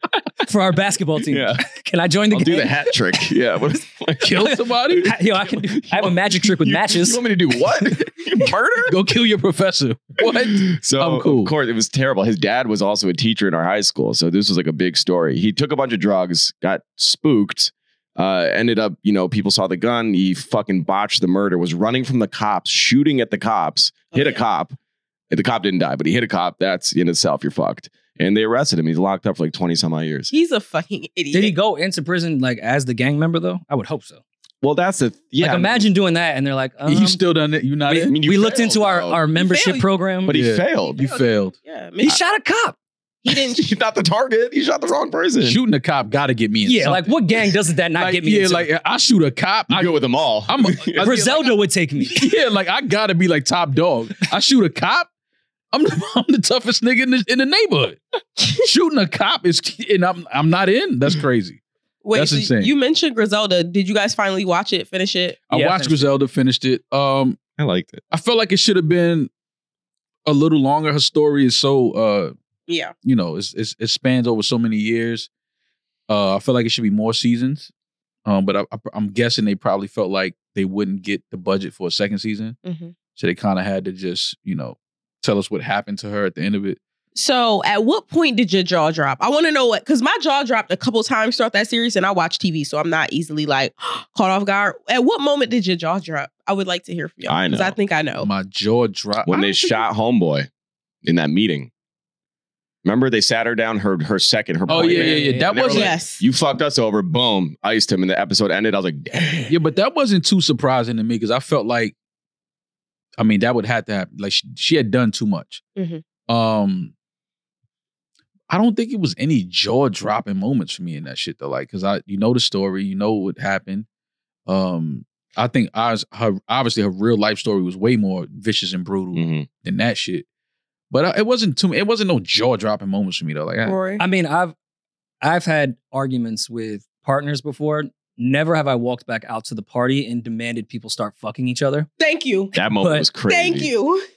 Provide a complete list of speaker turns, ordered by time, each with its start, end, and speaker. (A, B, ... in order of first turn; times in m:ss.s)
0:00.4-0:02.8 A
0:01.2-0:01.6 B
0:02.3-0:08.9 B
0:04.2-0:05.1 C
0:05.0-0:07.2 A
0:08.9-0:11.5 C
0:10.3-0:24.8 B
0:24.1-0:24.4 D
0:25.3-0:30.3 B
0:30.3-0:31.5 D
0:31.3-0:34.2 A
0:34.6-0:35.9 B
0:35.4-0:37.2 A
0:36.9-0:38.2 C
0:37.9-0:40.3 A
0:38.0-0:39.2 B
0:39.3-0:39.8 D
0:40.2-0:41.0 B
0:40.3-0:41.5 C
0:40.8-0:42.2 D
0:42.0-0:42.8 A
0:43.2-0:43.7 D
0:43.3-0:45.6 B
0:45.4-0:47.2 C
0:46.6-0:48.7 A
0:48.0-0:51.5 C
0:49.7-0:51.0 B
0:51.0-0:52.2 A
0:52.0-0:55.1 C
0:55.7-0:58.0 C
0:58.6-1:01.6 C
1:02.0-1:05.4 D
1:02.1-1:02.7 C
1:05.5-1:07.4 C
1:05.5-1:06.1 A
1:07.6-1:08.0 B
1:08.1-1:09.3 C
1:10.2-1:12.3 C
1:12.7-1:12.9 D
1:13.0-1:15.3 C
1:16.1-1:17.7 C
1:18.2-1:22.6 C
1:22.6-1:22.9 D
1:23.2-1:26.8 C
1:27.1-1:38.3 D
1:37.3-1:37.8 B
1:38.2-1:39.8 C
1:39.2-1:40.5 B
1:41.0-1:41.7 B
1:42.8-1:49.5 B
1:44.7-1:45.9 C
1:44.7-1:45.5 A
1:45.7-1:46.2 D
1:49.5-1:51.9 C
1:53.2-1:55.6 C
1:55.8-1:56.0 D
1:56.3-1:56.9 C
1:58.5-2:03.8 C
2:04.5-2:10.2 C
2:09.1-2:09.5 B
2:10.9-2:13.8 C
2:13.6-2:14.0 D
2:14.0-2:14.5 A
2:15.2-2:21.9 A
2:22.0-2:22.6 D
2:22.5-2:23.7 B
2:22.8-2:23.1 A
2:23.2-2:24.0 D